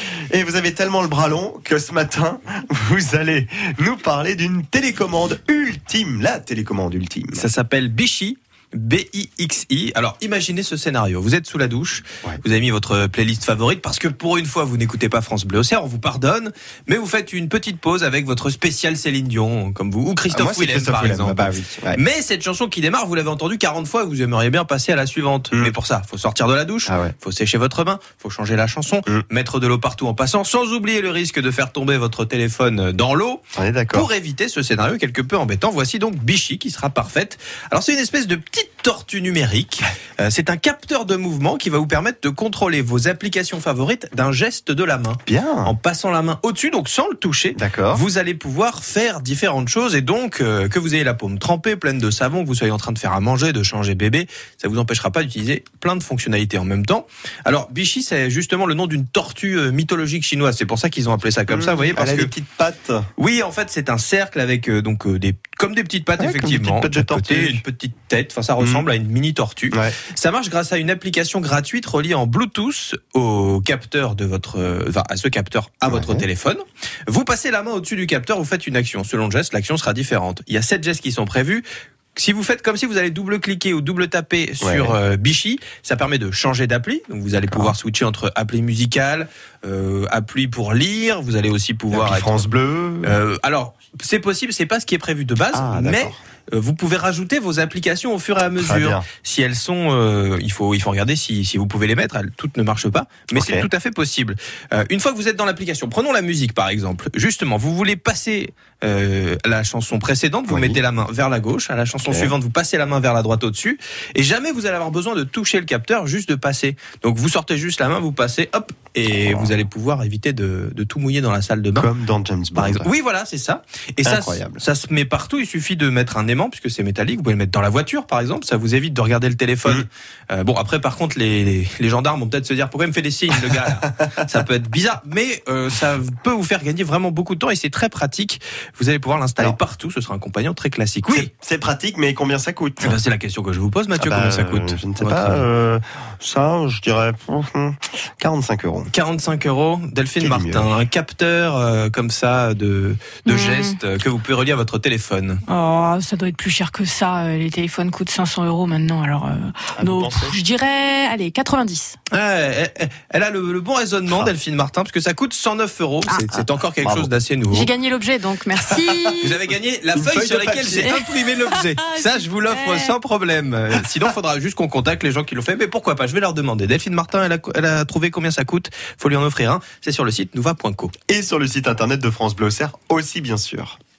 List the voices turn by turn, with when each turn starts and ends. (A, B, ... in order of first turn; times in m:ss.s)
0:00.3-0:07.4 A
0:07.3-1:02.3 B
0:20.3-0:22.0 A
0:26.9-0:27.1 A
0:33.6-0:34.1 A
0:45.3-0:45.7 A
0:47.6-0:48.0 A
1:01.5-1:03.0 A
1:03.2-1:32.4 B
1:06.2-1:07.6 A
1:08.6-1:08.9 A
1:15.9-1:16.2 A
1:24.6-1:25.0 A
1:27.5-1:27.7 A
1:31.9-1:33.1 A
1:33.0-2:01.9 B
1:35.5-1:36.2 A
1:38.6-1:39.1 A
1:43.3-1:43.7 A
1:50.5-1:50.8 A
1:52.0-1:52.3 A
1:59.1-1:59.5 A
2:01.8-2:02.9 A
2:02.6-2:21.3 B
2:04.0-2:04.6 A
2:13.3-2:13.7 A
2:21.1-2:23.0 A
2:22.8-2:25.4 B
2:24.0-2:28.9 A
2:28.9-2:35.4 B
2:30.2-2:30.8 A
2:33.2-2:33.8 C
2:35.5-2:42.0 C
2:39.8-2:40.4 A
2:42.1-2:47.7 B
2:46.1-2:46.4 C
2:46.8-2:47.1 A
2:47.5-2:49.4 C
2:48.6-2:49.1 A
2:49.2-3:00.9 B
2:49.9-2:51.0 A
2:50.8-2:52.9 C
3:01.1-3:03.8 A